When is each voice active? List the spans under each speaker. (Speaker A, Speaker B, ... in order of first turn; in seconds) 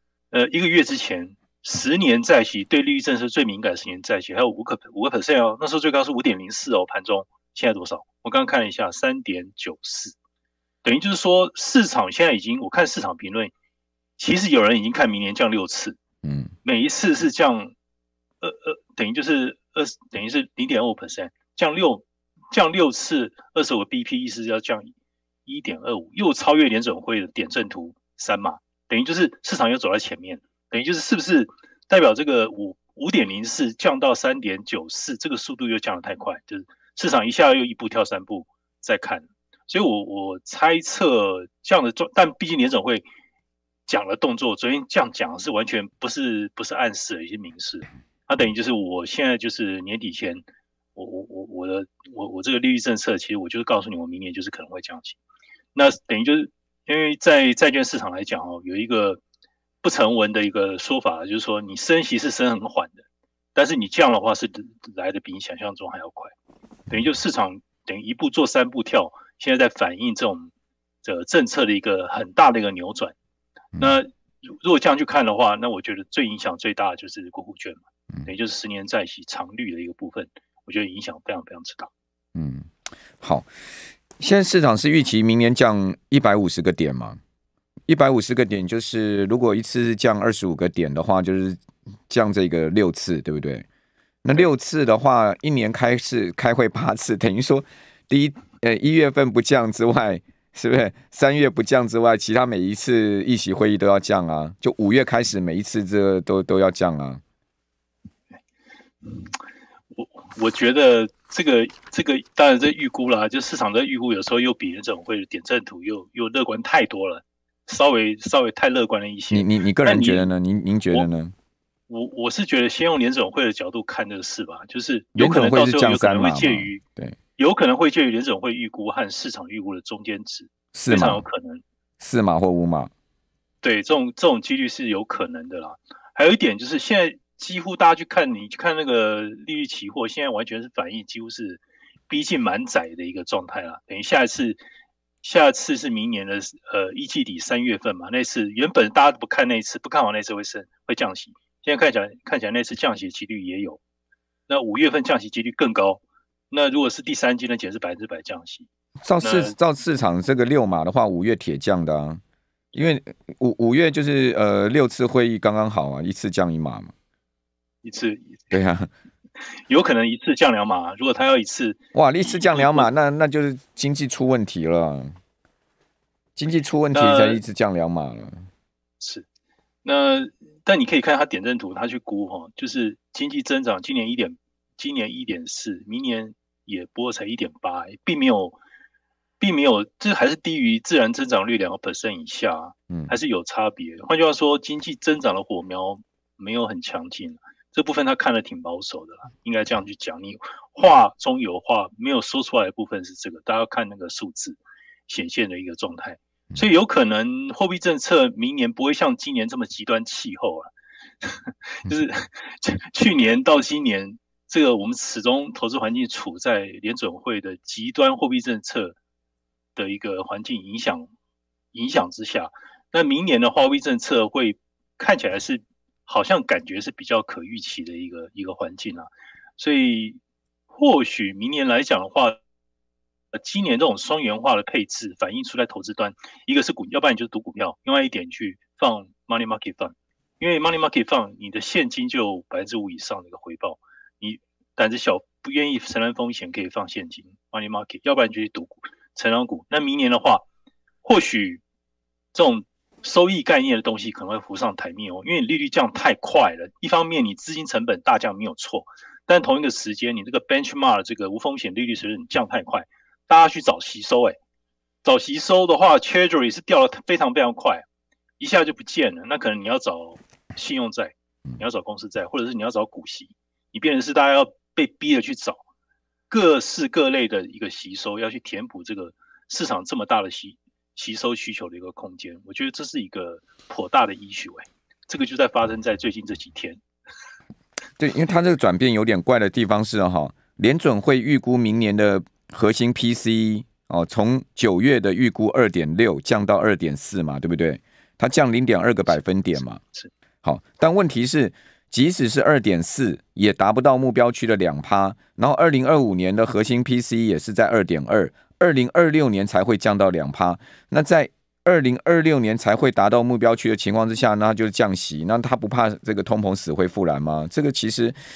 Speaker A: 0.3-10.2, 10.8-13.5, 14.2-16.0, 16.6-17.7, 18.4-24.9, 25.4-43.1, 43.9-55.2, 55.7-59.2, 59.8-63.0, 63.5-66.3, 66.9-70.5, 71.0-73.1, 73.8-81.9, 109.9-120.3, 121.9-126.8, 127.4-131.6, 133.6-144.6, 145.2-153.8, 154.5-158.7, 159.2-159.6, 167.8-168.6, 169.6-172.9, 176.9-177.4, 179.0-179.2, 179.8-188.6, 189.4-210.7, 211.2-218.9, 219.8-221.1, 221.7-229.1, 229.6-230.2, 230.7-232.4, 233.3-250.4, 251.0-251.6, 252.3-264.4, 265.0-267.8, 268.4-275.6, 276.3-286.8, 299.1-300.1
Speaker B: 16.2-16.5, 82.3-82.7, 83.2-83.5, 84.2-87.2, 87.9-93.7, 94.2-107.2, 119.3-121.3, 125.2-127.2, 130.7-131.2, 132.0-132.9, 159.0-162.2, 162.7-166.9, 168.5-168.9, 171.9-175.1, 176.3-178.4, 288.0-299.8, 300.4-318.2